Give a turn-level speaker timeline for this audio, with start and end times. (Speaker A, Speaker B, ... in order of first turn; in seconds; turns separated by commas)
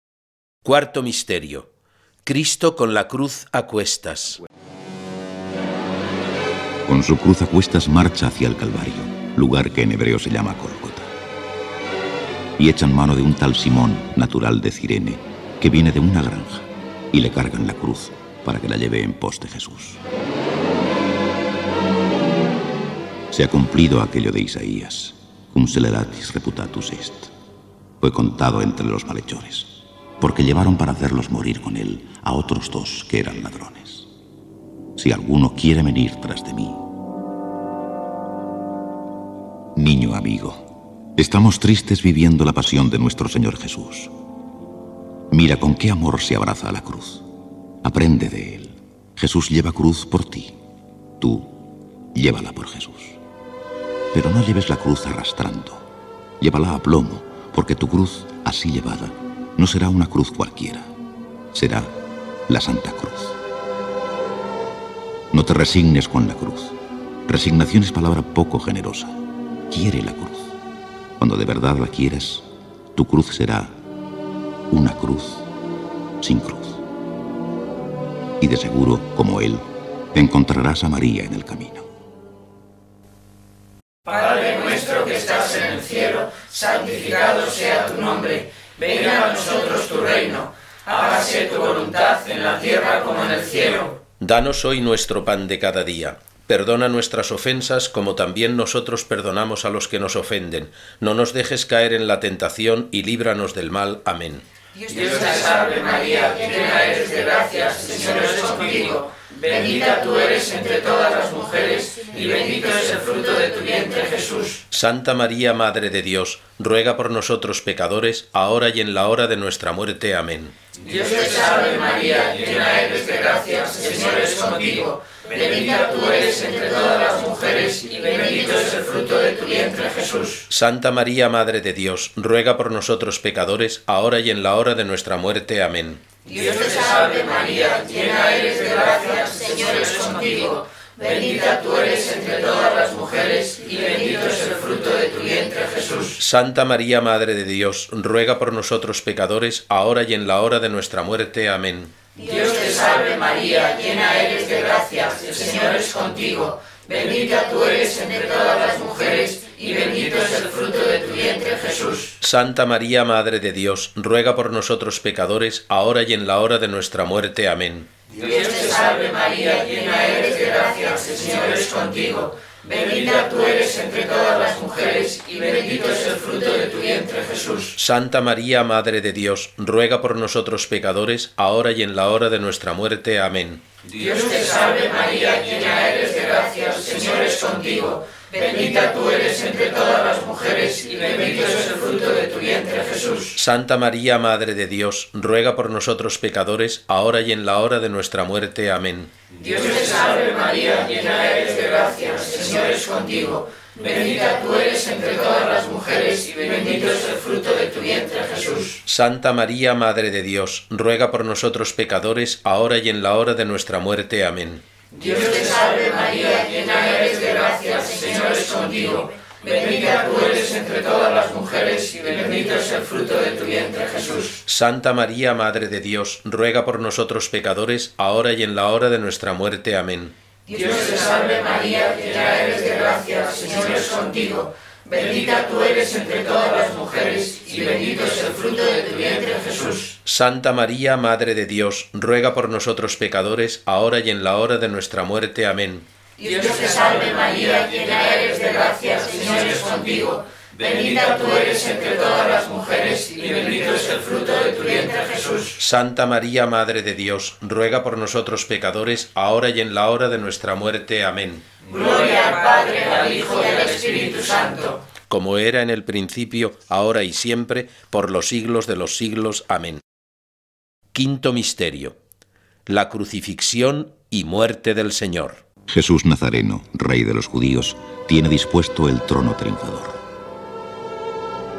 Speaker A: 0.6-1.7, Speaker A: 2.2-4.4, Speaker B: 6.8-11.1, Speaker B: 12.6-20.0, Speaker B: 23.3-27.3, Speaker B: 28.0-34.1, Speaker B: 35.0-36.9, Speaker B: 39.7-44.1, Speaker B: 45.3-47.3, Speaker B: 47.8-50.5, Speaker B: 51.2-53.2, Speaker B: 54.1-55.9, Speaker B: 56.4-60.9, Speaker B: 61.5-61.9, Speaker B: 62.5-63.4, Speaker B: 65.3-69.2, Speaker B: 69.7-70.5, Speaker B: 71.2-73.8, Speaker B: 74.7-75.5, Speaker B: 76.2-76.8, Speaker B: 78.4-81.9, Speaker C: 84.0-94.0, Speaker A: 94.2-104.4, Speaker C: 104.8-114.6, Speaker A: 114.7-120.5, Speaker C: 120.8-130.4, Speaker A: 130.5-136.0, Speaker C: 136.2-146.2, Speaker A: 146.2-151.9, Speaker C: 152.2-162.1, Speaker A: 162.2-167.9, Speaker C: 168.1-177.7, Speaker A: 177.8-183.6, Speaker C: 183.9-193.3, Speaker A: 193.3-199.1, Speaker C: 199.4-208.8, Speaker A: 208.8-214.6, Speaker C: 214.9-224.4, Speaker A: 224.4-230.1, Speaker C: 230.5-239.9, Speaker A: 240.0-245.8, Speaker C: 246.2-255.6, Speaker A: 255.6-261.4, Speaker C: 261.7-264.8, Speaker A: 265.1-269.8, Speaker A: 270.9-272.0, Speaker A: 272.6-275.4, Speaker B: 275.7-280.0